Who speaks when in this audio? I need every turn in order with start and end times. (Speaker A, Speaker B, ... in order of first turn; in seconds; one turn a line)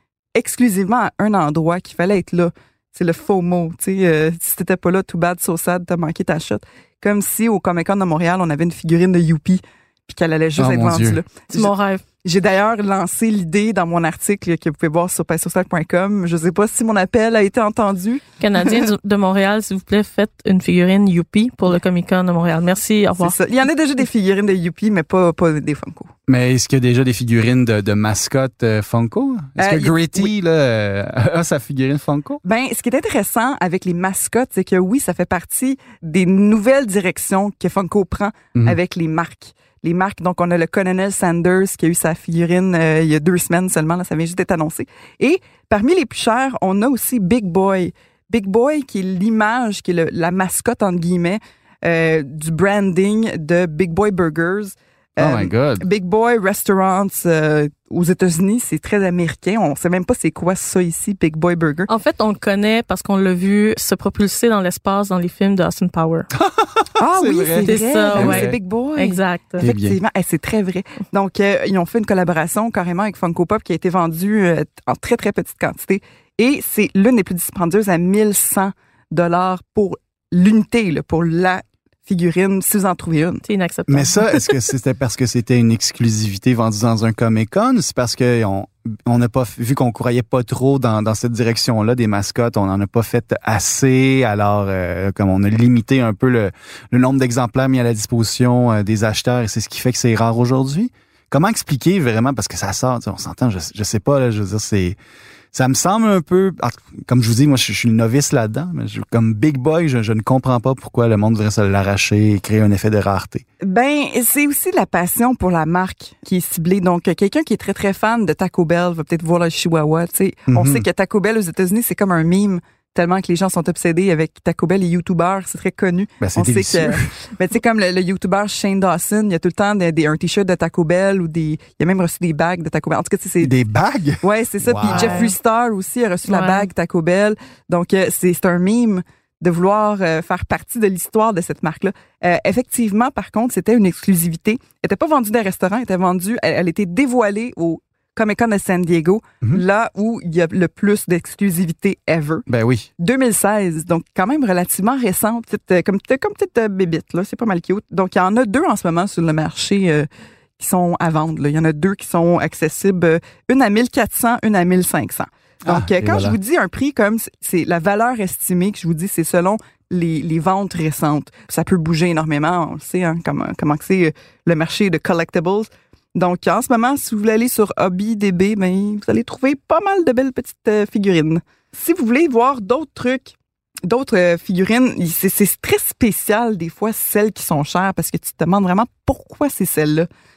Speaker A: 0.3-11.7
Speaker B: 10.6-11.2
Speaker C: 11.5-12.0
Speaker A: 12.2-18.9
Speaker C: 18.4-23.3
Speaker A: 23.2-26.1
Speaker B: 26.3-32.4
Speaker A: 29.6-30.3
Speaker A: 32.4-61.9
Speaker B: 55.2-55.9
Speaker C: 61.9-66.3
Speaker B: 66.3-68.6
Speaker A: 67.0-83.4
Speaker C: 67.6-69.7
Speaker B: 69.6-70.0
Speaker C: 83.4-84.6
Speaker B: 83.9-105.0
Speaker B: 105.5-113.4
Speaker A: 113.6-133.5
Speaker B: 120.5-120.8
Speaker B: 126.2-127.1
Speaker B: 133.4-135.3
Speaker A: 134.2-152.4
Speaker C: 134.9-135.3
Speaker C: 136.3-136.7
Speaker B: 152.5-152.9
Speaker A: 153.0-190.1
Speaker B: 165.7-166.4